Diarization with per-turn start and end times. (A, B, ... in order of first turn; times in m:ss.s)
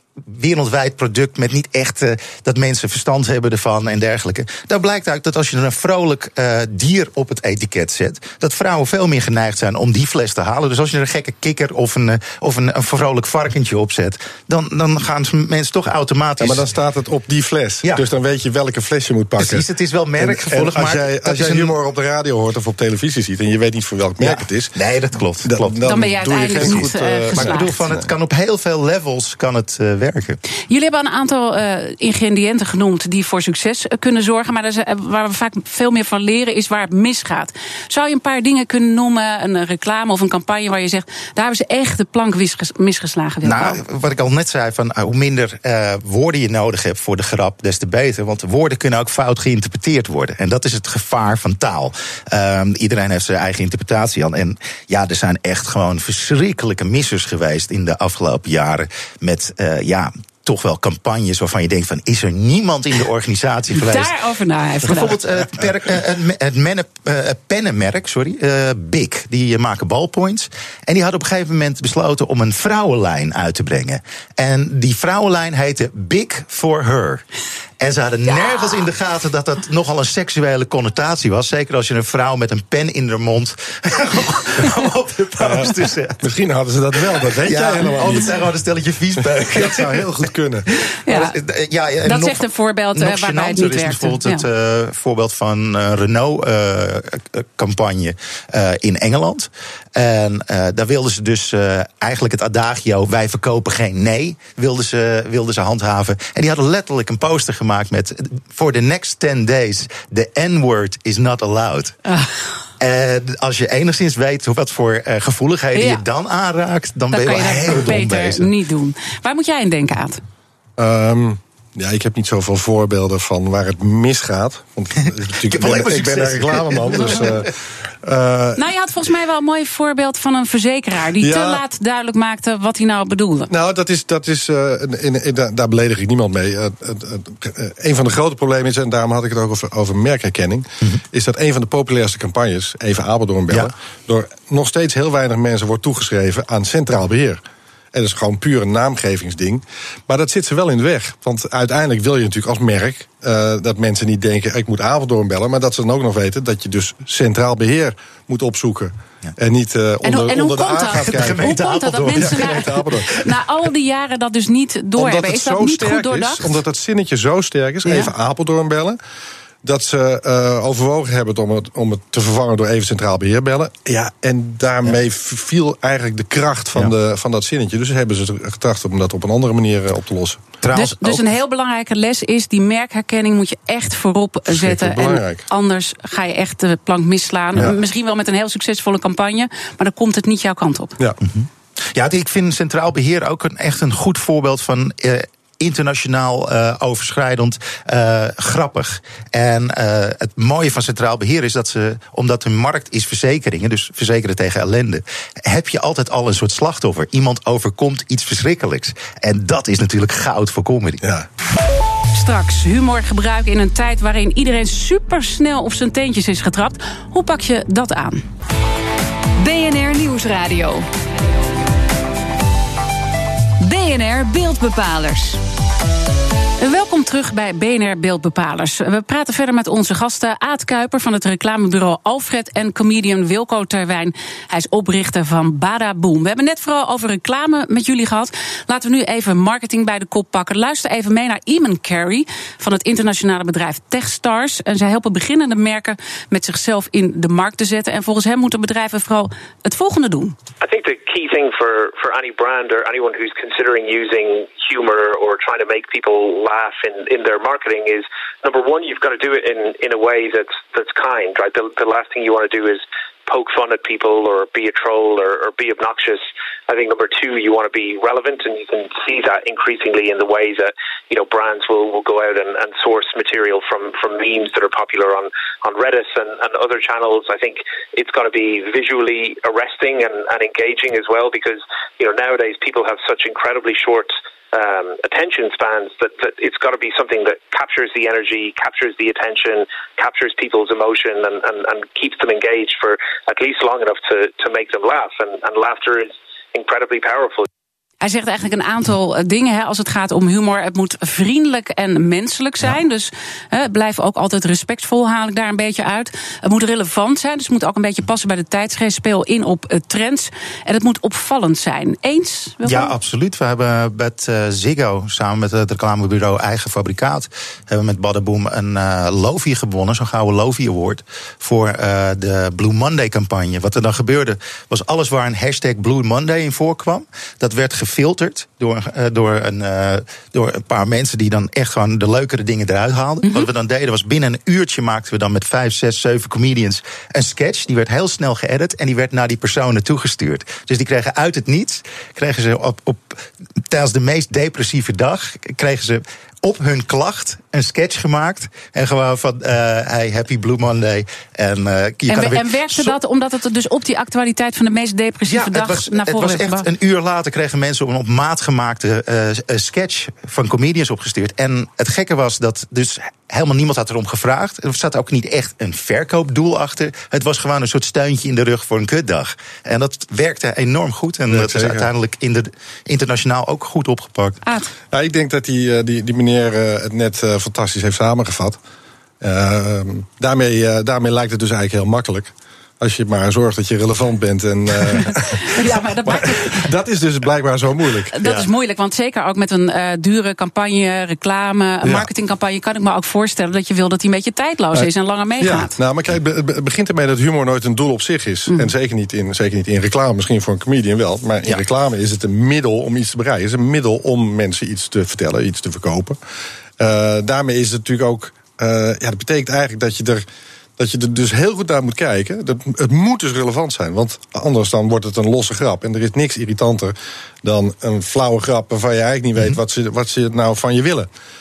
0:00.2-0:16.7 A
0:16.4-0:19.6 B
0:19.4-0:21.7 A
0:20.2-0:24.7 B
0:24.2-0:25.8 A
0:25.4-0:28.1 B
0:25.8-0:27.7 C
0:26.5-0:30.4 A
0:30.7-0:43.8 C
0:43.4-1:04.2 A
1:03.7-1:05.2 C
1:04.8-1:17.2 A
1:17.8-1:26.2 A
1:25.4-1:28.4 B
1:27.1-1:30.0 A
1:29.5-1:30.7 B
1:31.1-1:31.4 C
1:31.1-1:52.0 A
1:32.0-1:34.4 C
1:52.1-1:52.5 C
1:52.8-1:58.5 A
1:55.8-1:56.0 C
1:57.1-2:00.2 C
2:00.8-2:08.7 B
2:05.4-2:07.4 A
2:08.6-2:13.5 C
2:11.2-2:11.6 B
2:13.5-2:27.4 B
2:27.9-2:41.5 B
2:40.0-2:46.6 C
2:41.0-2:43.2 A
2:42.2-2:43.1 B
2:45.0-2:49.0 B
2:47.8-2:48.1 C
2:49.6-3:00.4 B
3:00.6-3:01.3 A
3:00.7-3:11.0 C
3:04.5-3:05.4 B
3:11.2-3:31.0 A
3:31.0-3:31.3 B
3:32.1-3:38.2 C
3:39.4-3:40.9 D
3:43.6-3:45.4 D
3:46.6-4:10.4 C
4:10.6-4:57.5 E
4:58.0-5:12.9 C
5:12.6-5:53.0 A
5:33.2-5:33.5 C
5:52.1-5:56.7 C
5:55.3-6:14.4 A
6:11.3-6:11.9 B
6:14.4-6:14.7 C
6:14.9-6:18.6 B
6:19.2-6:28.2 B
6:25.4-6:26.7 C
6:28.1-6:35.8 C
6:35.4-6:46.2 B
6:46.8-6:50.2 B
6:50.8-7:01.1 B